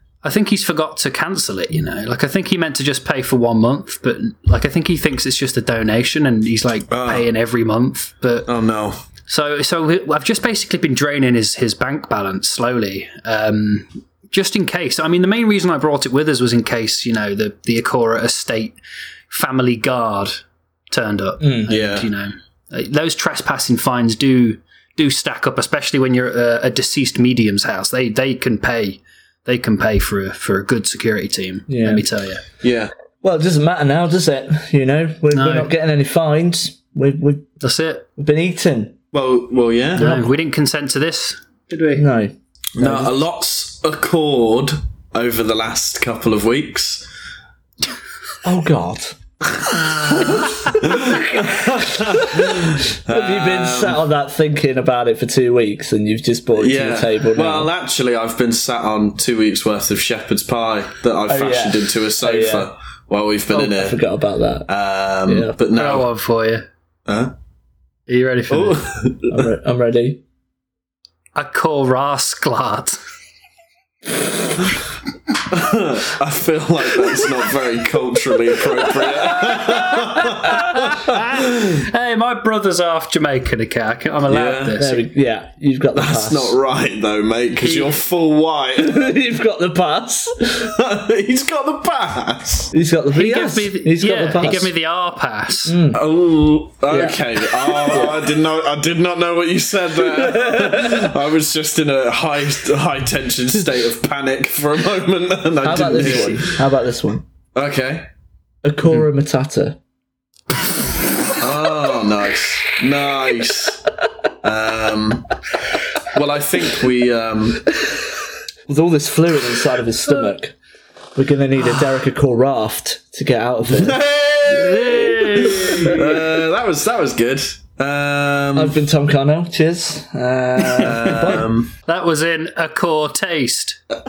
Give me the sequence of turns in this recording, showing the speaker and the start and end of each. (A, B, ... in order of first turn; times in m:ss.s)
0:00.2-0:08.5 A
0:06.9-0:07.3 B
0:08.5-0:09.0 B
0:09.3-0:18.8 A
0:19.3-0:32.4 A
0:21.4-0:21.7 C
0:21.7-0:22.1 B
0:31.7-0:32.0 C
0:32.6-0:32.9 B
0:33.2-0:37.6 C
0:35.3-0:35.7 A
0:37.6-0:38.1 A
0:38.2-0:39.0 C
0:39.1-0:40.2 B
0:40.0-0:42.0 A
0:40.0-0:40.3 C
0:41.9-0:43.2 C
0:42.8-0:47.1 B
0:48.4-0:49.2 C
0:49.7-0:54.0 B
0:50.1-0:57.7 C
0:56.6-1:04.0 B
1:01.3-1:02.7 C
1:03.5-1:04.7 C
1:04.7-1:06.1 B
1:05.3-1:05.5 C
1:05.7-1:06.7 A
1:07.1-1:07.3 B
1:08.1-1:08.9 A
1:08.5-1:09.5 B
1:09.2-1:10.2 C
1:11.4-1:13.0 A
1:15.5-1:20.8 B
1:19.9-1:25.1 A
1:24.3-1:24.8 B
1:24.8-1:26.6 C
1:26.0-1:29.1 B
1:27.6-1:28.0 A
1:28.8-1:30.7 C
1:30.6-1:32.7 B
1:32.7-1:34.7 C
1:33.1-1:35.8 A
1:35.6-1:36.0 C
1:35.9-1:46.6 B
1:36.9-1:37.2 C
1:37.7-1:38.3 C
1:40.1-1:41.1 C
1:45.6-1:47.2 C
1:45.9-1:46.3 A
1:47.6-1:48.1 B
1:48.6-1:49.8 C
1:51.4-1:53.9 B
1:54.4-1:55.3 B
1:56.1-1:57.7 B
1:58.7-2:00.6 C
2:01.2-2:04.0 C
2:03.7-2:08.8 B
2:04.4-2:06.2 A
2:05.4-2:05.8 C
2:08.6-2:11.5 C
2:10.7-2:11.7 B
2:10.8-2:11.2 A
2:11.9-2:13.8 A